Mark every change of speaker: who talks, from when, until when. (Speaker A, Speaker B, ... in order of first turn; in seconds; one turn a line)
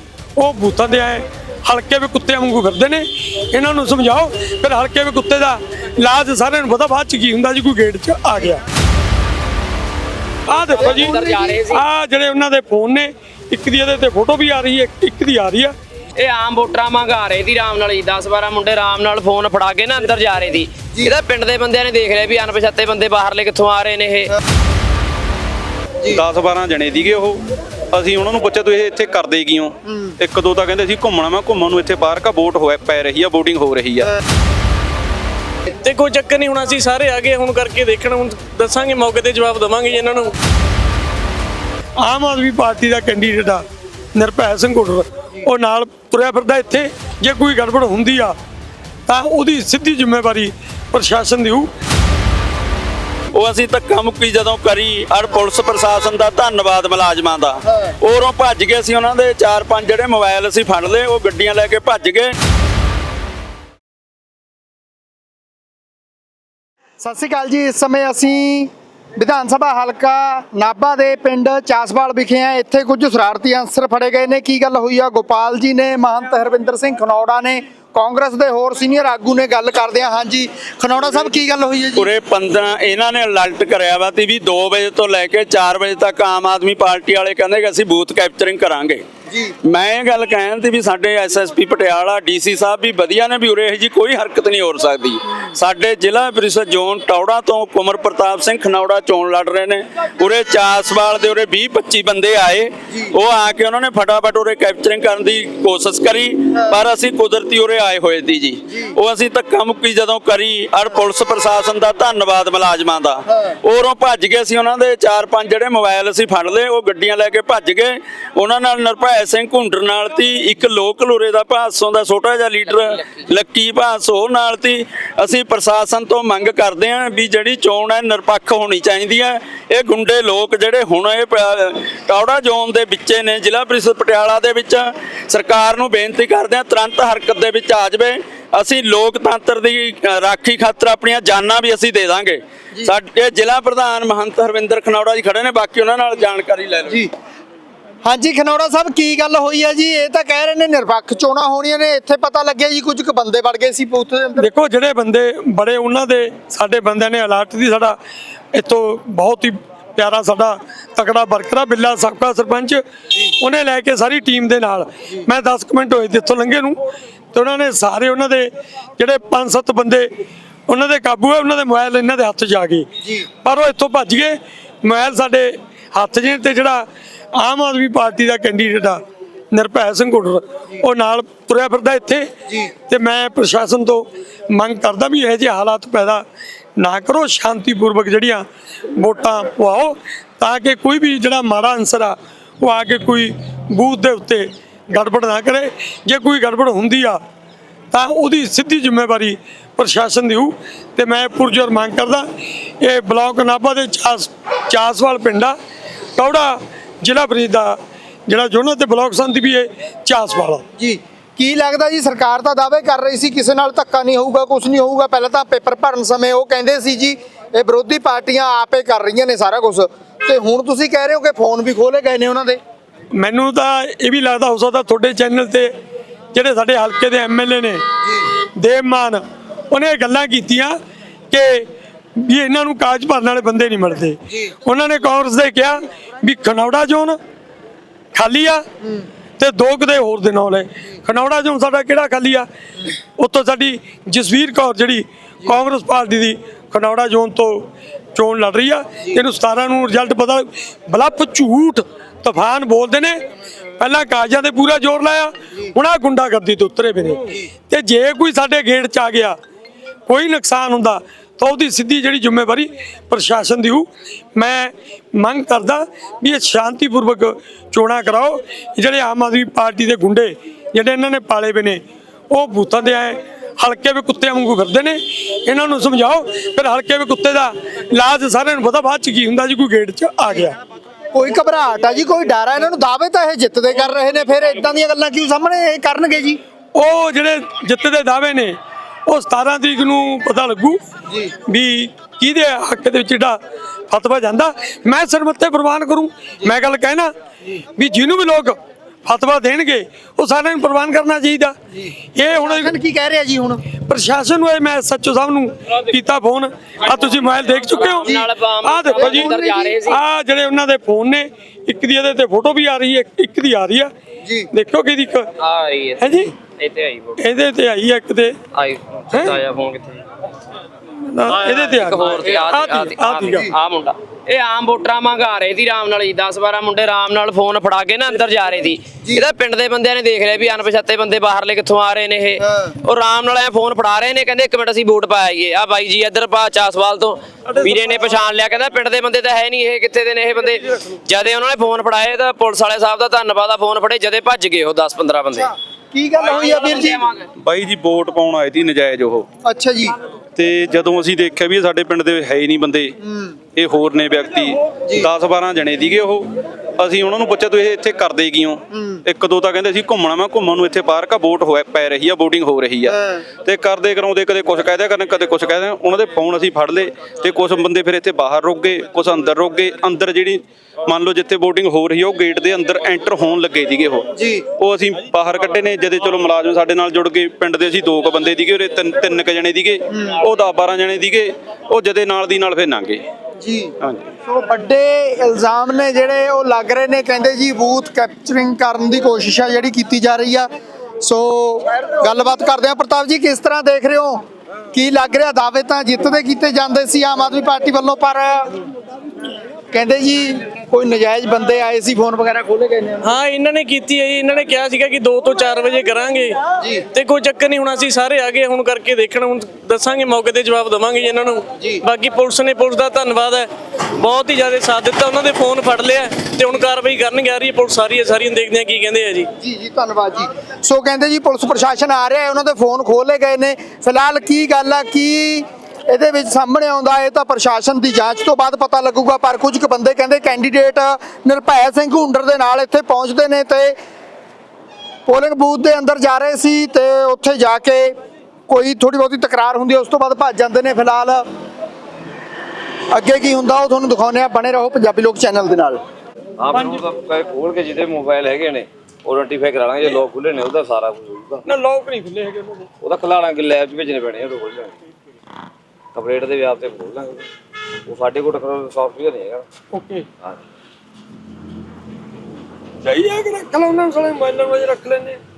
Speaker A: 0.4-8.6
Speaker A: 10.5-15.7
Speaker B: 10.6-11.8
Speaker C: 11.0-11.5
Speaker B: 16.2-24.3
Speaker D: 26.1-34.1
Speaker C: 29.9-30.2
Speaker E: 35.8-40.4
Speaker A: 42.0-48.4
Speaker A: 49.1-51.7
Speaker F: 53.3-62.3
Speaker C: 67.0-82.1
Speaker F: 82.0-89.0
Speaker C: 89.3-89.5
Speaker F: 89.6-147.0
Speaker C: 108.7-109.0
Speaker C: 148.0-154.5
Speaker A: 154.4-158.0
Speaker A: 158.5-162.8
Speaker A: 163.3-166.8
Speaker A: 167.3-170.1
Speaker A: 170.7-172.9
Speaker C: 173.0-173.3
Speaker A: 173.4-182.3
Speaker A: 182.9-186.2
Speaker A: 186.8-197.2
Speaker A: 197.9-202.3
Speaker A: 202.8-205.6
Speaker A: 206.2-210.6
Speaker C: 210.8-222.6
Speaker A: 223.2-225.7
Speaker A: 226.3-227.8
Speaker C: 228.0-228.3
Speaker A: 228.6-230.8
Speaker A: 231.3-237.2
Speaker A: 238.1-238.6
Speaker A: 239.4-242.5
Speaker A: 243.2-253.2
Speaker A: 253.8-259.4
Speaker A: 260.1-280.6
Speaker C: 281.1-286.4
Speaker A: 286.8-288.6
Speaker A: 289.1-290.8
Speaker C: 291.1-291.3
Speaker A: 291.5-297.1
Speaker A: 297.8-301.6
Speaker C: 301.7-303.6
Speaker A: 302.1-302.7
Speaker A: 303.9-309.3
Speaker B: 307.7-310.0
Speaker C: 308.1-308.3
Speaker C: 308.9-309.8
Speaker A: 309.8-313.9
Speaker C: 314.2-314.5
Speaker A: 314.5-315.3
Speaker B: 315.4-317.2
Speaker A: 316.0-316.3
Speaker A: 317.2-318.4
Speaker B: 318.5-320.0
Speaker A: 319.1-319.4
Speaker A: 321.1-323.5
Speaker B: 321.3-345.5
Speaker C: 332.4-332.7
Speaker C: 345.9-347.1
Speaker B: 346.3-347.2
Speaker D: 347.4-349.3
Speaker C: 349.4-350.0
Speaker D: 350.4-353.0
Speaker C: 353.0-353.4
Speaker D: 353.6-383.0
Speaker C: 358.7-359.0
Speaker C: 362.9-363.2
Speaker C: 374.2-374.4
Speaker C: 383.4-383.7
Speaker C: 384.3-390.5
Speaker C: 391.0-394.2
Speaker C: 394.7-398.6
Speaker C: 399.7-403.2
Speaker E: 403.0-406.4
Speaker C: 406.6-406.8
Speaker E: 406.9-419.3
Speaker C: 419.4-433.8
Speaker C: 435.1-438.0
Speaker C: 438.5-441.2
Speaker C: 442.9-445.8
Speaker G: 446.4-451.4
Speaker A: 446.5-446.8
Speaker A: 451.4-452.7
Speaker G: 452.8-454.8
Speaker G: 455.9-457.3
Speaker G: 457.9-459.5
Speaker A: 459.7-460.1
Speaker A: 462.8-465.2